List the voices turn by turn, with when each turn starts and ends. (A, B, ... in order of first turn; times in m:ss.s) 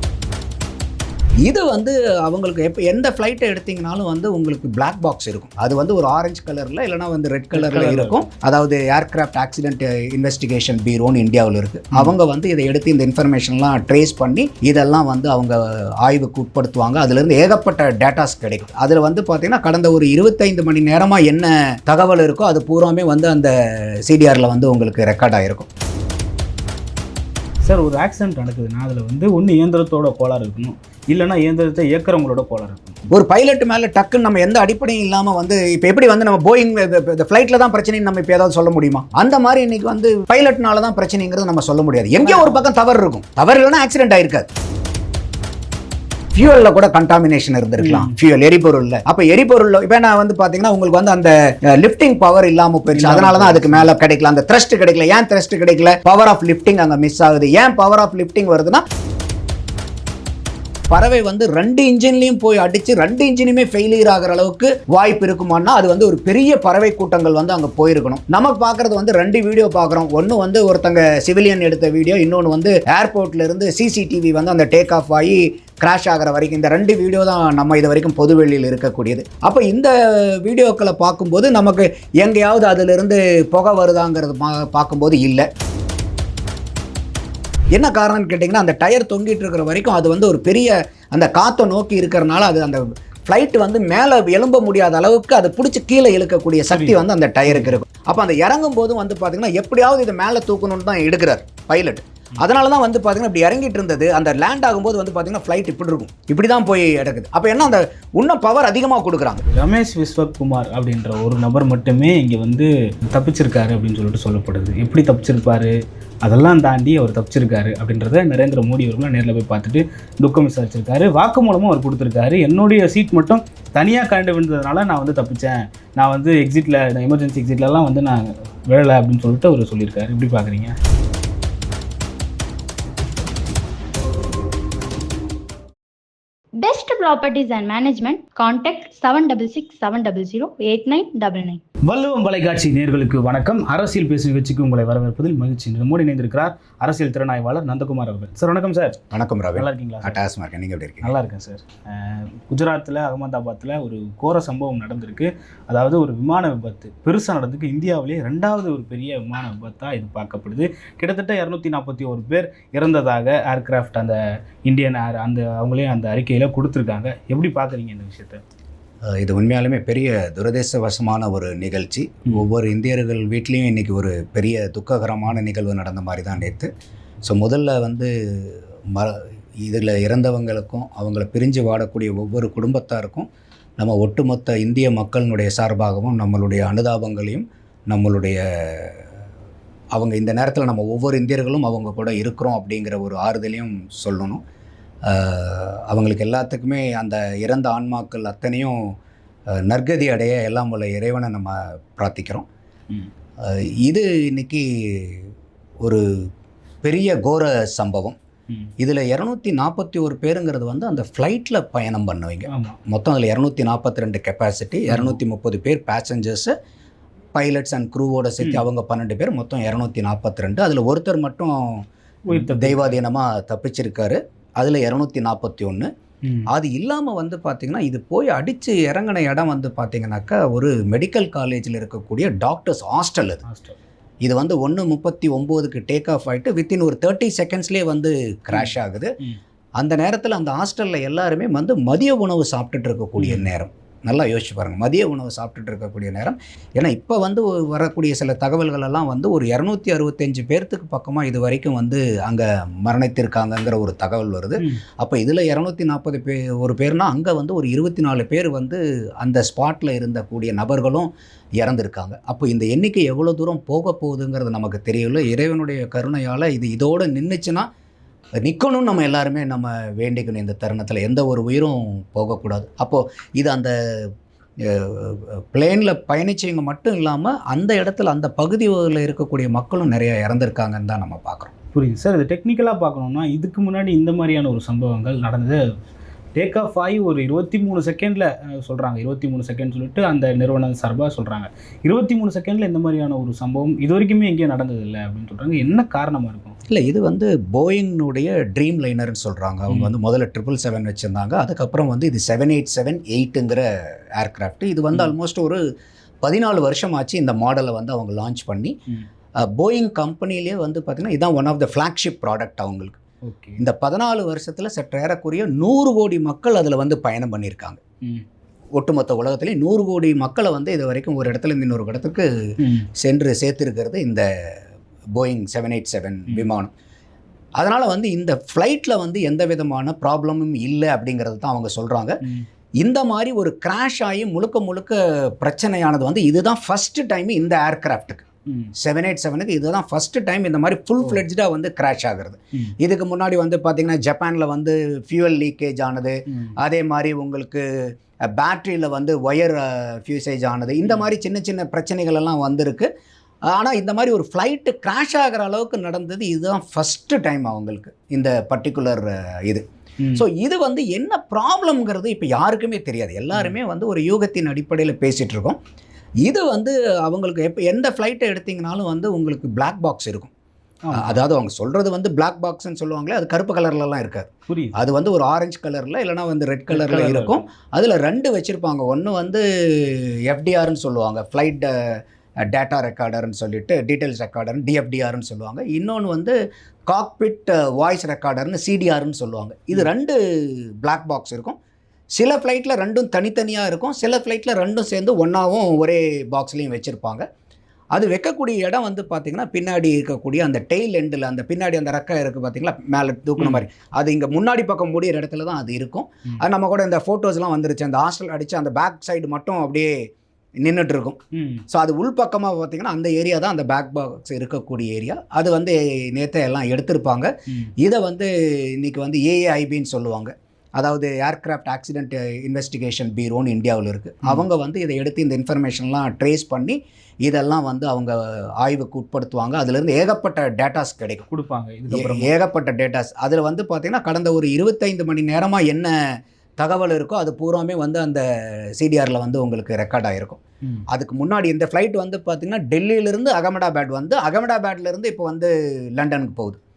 0:01.4-0:25.7 A
0:07.5-0:08.2 B
0:27.6-0:33.0 B
0:33.1-0:44.5 A
0:42.2-0:42.7 B
0:46.3-0:58.8 A
0:47.8-0:48.1 B
0:52.9-0:53.9 B
1:00.9-1:25.5 A
1:27.7-1:49.4 A
1:36.7-1:37.7 B
1:49.5-2:10.8 B
2:16.6-2:21.6 C
2:21.8-2:29.0 B
2:29.1-2:31.1 A
2:29.6-2:30.2 B
2:31.0-2:48.4 B
2:49.1-2:56.7 A
2:57.2-3:09.0 A
3:10.0-3:14.4 A
3:15.0-3:18.9 A
3:19.5-3:22.5 A
3:23.4-3:25.3 A
3:26.8-3:28.2 A
3:28.8-3:36.5 A
3:32.5-3:32.8 B
3:34.9-3:35.2 B
3:37.3-3:45.9 A
3:42.3-3:43.0 B
3:46.5-3:53.4 A
3:53.4-3:53.8 B
3:54.2-3:59.1 A
3:58.5-3:59.4 B
3:59.8-4:27.7 A
4:03.2-4:03.5 B
4:28.4-4:34.1 A
4:34.6-4:41.5 A
4:41.7-4:45.6 B
4:46.3-4:56.6 B
4:56.7-5:05.6 A
5:06.2-5:08.8 A
5:09.4-5:13.0 A
5:13.2-5:13.6 B
5:13.6-5:17.8 A
5:18.8-5:22.3 A
5:22.6-5:22.9 B
5:23.0-5:24.3 A
5:25.2-5:26.7 A
5:27.6-5:32.2 A
5:32.8-5:38.2 A
5:38.5-5:38.7 B
5:38.8-5:47.6 A
5:46.3-5:46.5 B
5:48.2-5:52.9 A
5:50.8-5:51.1 B
5:53.5-5:59.6 A
6:00.1-6:05.6 A
6:06.2-6:10.3 A
6:10.8-6:11.2 B
6:10.9-6:26.4 A
6:14.5-6:14.8 B
6:16.7-6:17.4 B
6:26.9-6:31.6 A
6:32.2-6:37.2 A
6:37.9-6:49.9 A
6:43.4-6:43.6 B
6:50.6-7:11.3 A
6:51.3-6:51.6 B
7:11.3-7:12.3 B
7:11.9-7:15.9 A
7:16.6-7:26.6 A